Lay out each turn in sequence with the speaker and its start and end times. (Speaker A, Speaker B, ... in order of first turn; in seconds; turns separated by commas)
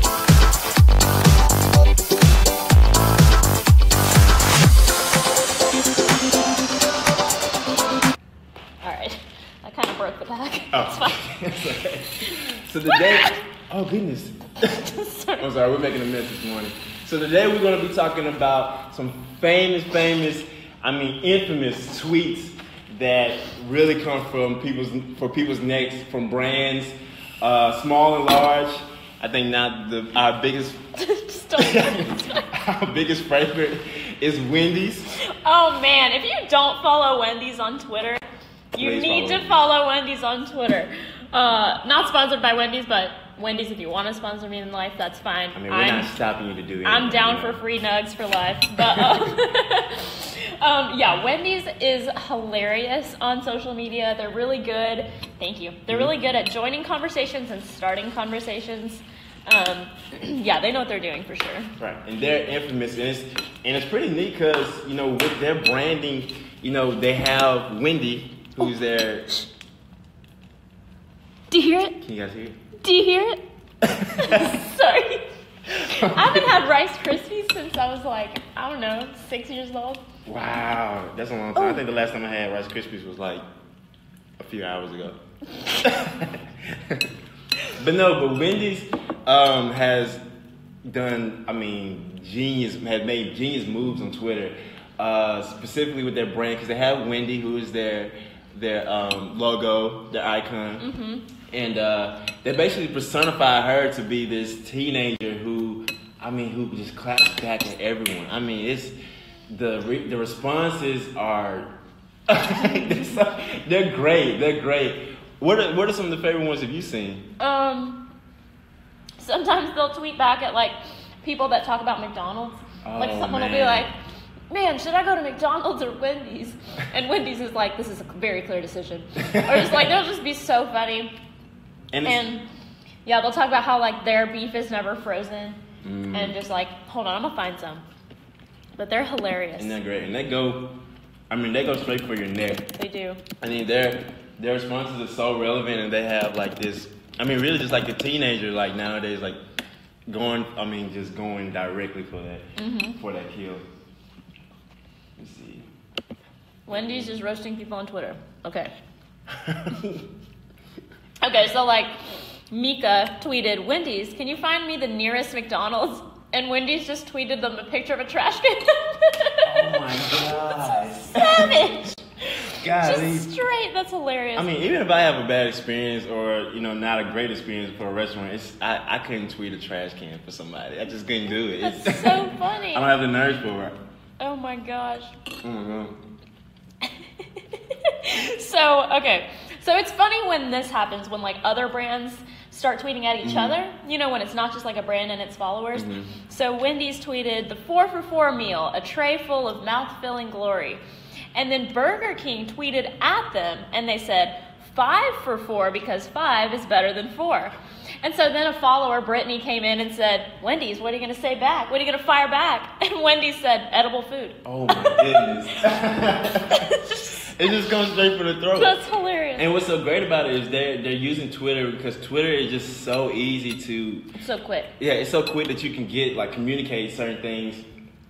Speaker A: 8.8-11.2, Speaker B: 10.7-14.8, Speaker A: 12.9-13.4, Speaker A: 14.7-15.5, Speaker B: 15.4-30.8, Speaker A: 31.0-32.5, Speaker B: 31.6-35.1, Speaker A: 35.2-46.1, Speaker B: 38.8-39.7, Speaker B: 45.5-47.6, Speaker A: 46.9-61.7, Speaker B: 48.8-49.2, Speaker B: 61.8-69.3, Speaker A: 71.5-72.0, Speaker B: 72.0-72.6, Speaker A: 72.8-73.4, Speaker B: 73.8-74.6, Speaker A: 74.2-80.0, Speaker B: 75.7-76.5, Speaker B: 80.3-83.4, Speaker A: 81.6-81.8, Speaker B: 84.4-85.2, Speaker B: 85.8-87.1, Speaker B: 87.7-90.2, Speaker B: 90.9-100.9, Speaker A: 100.8-101.2, Speaker B: 101.5-109.0, Speaker B: 109.5-111.8, Speaker B: 112.3-117.3, Speaker A: 117.4-118.1, Speaker A: 119.2-123.9, Speaker B: 122.8-123.9, Speaker A: 124.5-131.1, Speaker B: 129.2-129.9, Speaker B: 131.9-132.2, Speaker A: 132.0-132.4, Speaker A: 133.1-135.6, Speaker B: 135.8-136.4, Speaker A: 136.1-137.8, Speaker A: 138.8-139.8, Speaker B: 139.6-140.8, Speaker B: 141.3-142.7, Speaker A: 142.7-143.2, Speaker B: 143.4-149.4, Speaker B: 150.1-153.7, Speaker A: 152.6-153.0, Speaker B: 155.2-155.7, Speaker A: 156.7-158.7, Speaker B: 156.7-157.1, Speaker B: 159.3-160.1, Speaker A: 161.2-161.9, Speaker A: 162.5-174.5, Speaker B: 169.4-171.7, Speaker B: 172.5-173.3, Speaker B: 174.3-183.8, Speaker A: 181.6-182.9, Speaker A: 184.2-185.1, Speaker B: 185.4-186.0, Speaker A: 186.8-200.8, Speaker B: 193.2-193.6, Speaker B: 195.8-196.2, Speaker A: 201.3-217.3, Speaker B: 214.4-218.8, Speaker A: 218.6-219.5, Speaker B: 219.4-224.1, Speaker A: 224.2-224.7, Speaker B: 224.8-227.7